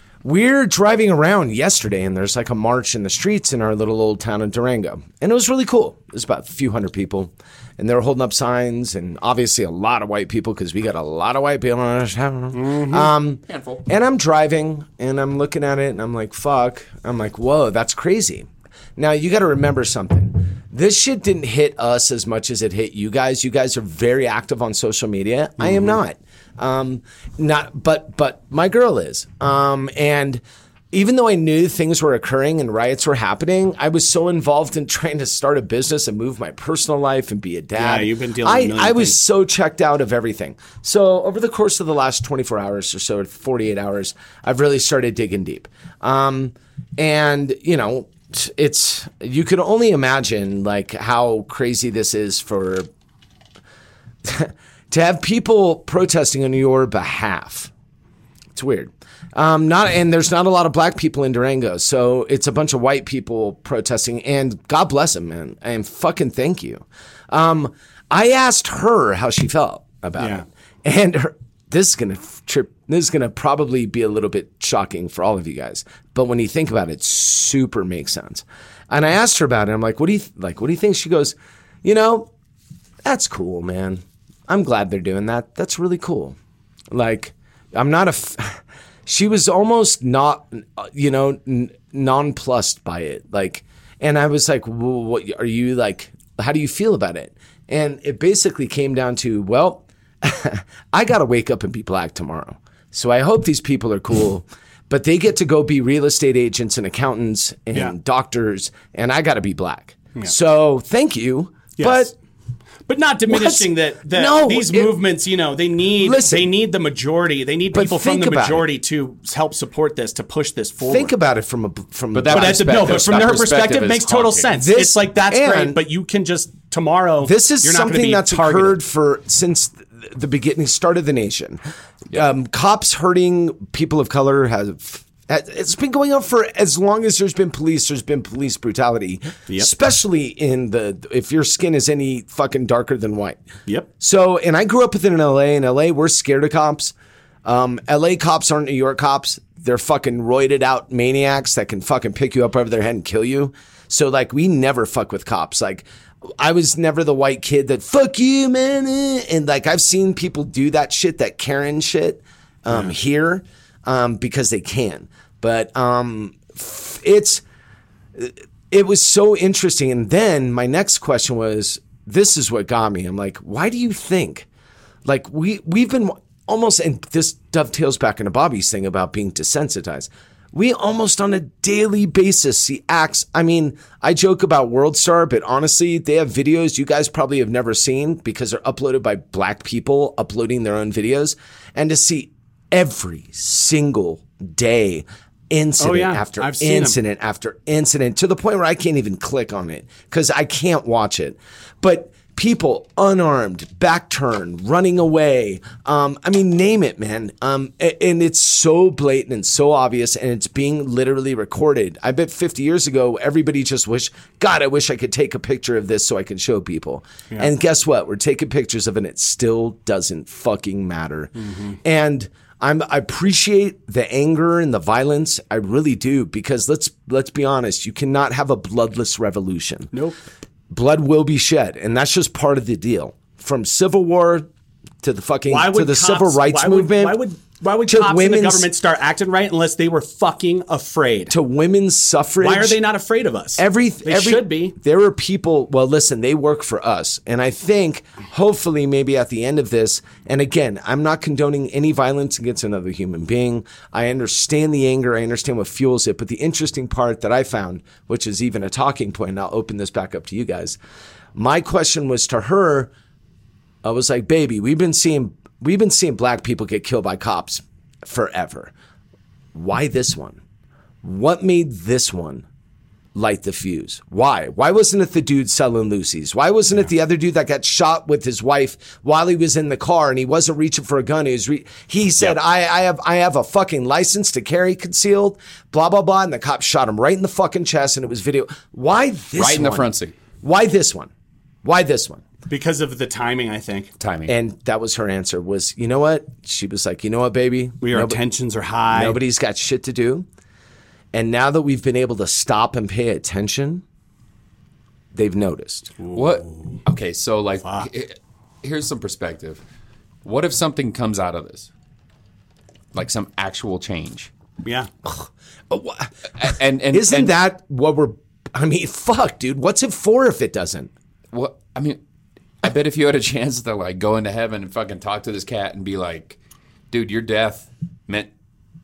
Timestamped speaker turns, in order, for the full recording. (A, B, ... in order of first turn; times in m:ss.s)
0:00.2-0:52.9 A
0:12.5-0:13.1 B
0:13.5-0:13.8 C
0:25.6-0:26.0 B
0:37.8-0:39.2 B
0:54.2-0:57.7 A
0:58.5-1:22.3 A
1:10.2-1:10.4 B
1:23.0-1:26.4 A
1:26.9-1:52.1 A
1:51.8-1:52.1 B
1:52.9-2:01.1 B
1:53.3-1:55.0 A
1:56.0-1:56.5 A
1:57.7-1:58.7 A
2:00.8-2:03.1 A
2:02.1-2:04.5 C
2:02.3-2:08.8 B
2:04.6-2:05.8 A
2:07.2-2:11.6 A
2:12.1-2:23.4 A
2:24.0-2:26.9 A
2:27.4-2:35.8 A
2:36.4-2:47.4 A
2:48.2-2:54.5 A
2:55.0-3:41.3 A
3:15.8-3:17.0 B
3:41.4-3:41.8 B
3:41.8-3:49.9 A
3:49.9-3:50.2 B
3:50.7-3:54.5 A
3:55.0-3:57.2 A
3:55.5-4:01.3 B
3:57.8-3:58.7 A
4:01.3-4:02.8 A
4:02.4-4:04.7 B
4:03.6-4:20.8 A
4:21.3-4:22.9 A
4:23.8-4:28.7 A
4:29.5-4:30.4 A
4:31.0-4:32.4 A
4:33.1-4:49.9 A
4:49.4-4:50.1 C
4:50.4-4:51.1 A
4:51.6-4:52.2 A
4:52.5-4:53.9 B
4:54.0-4:54.3 C
4:54.3-4:58.2 A
4:57.8-4:59.2 B
4:58.9-5:00.3 A
5:01.1-5:03.8 A
5:05.1-5:05.9 A
5:06.0-5:06.8 B
5:06.1-5:09.6 C
5:10.2-5:11.7 C
5:12.9-5:14.3 C
5:15.0-5:20.9 A
5:16.4-5:17.3 C
5:21.3-5:22.0 C
5:22.6-5:26.4 C
5:26.9-5:28.3 C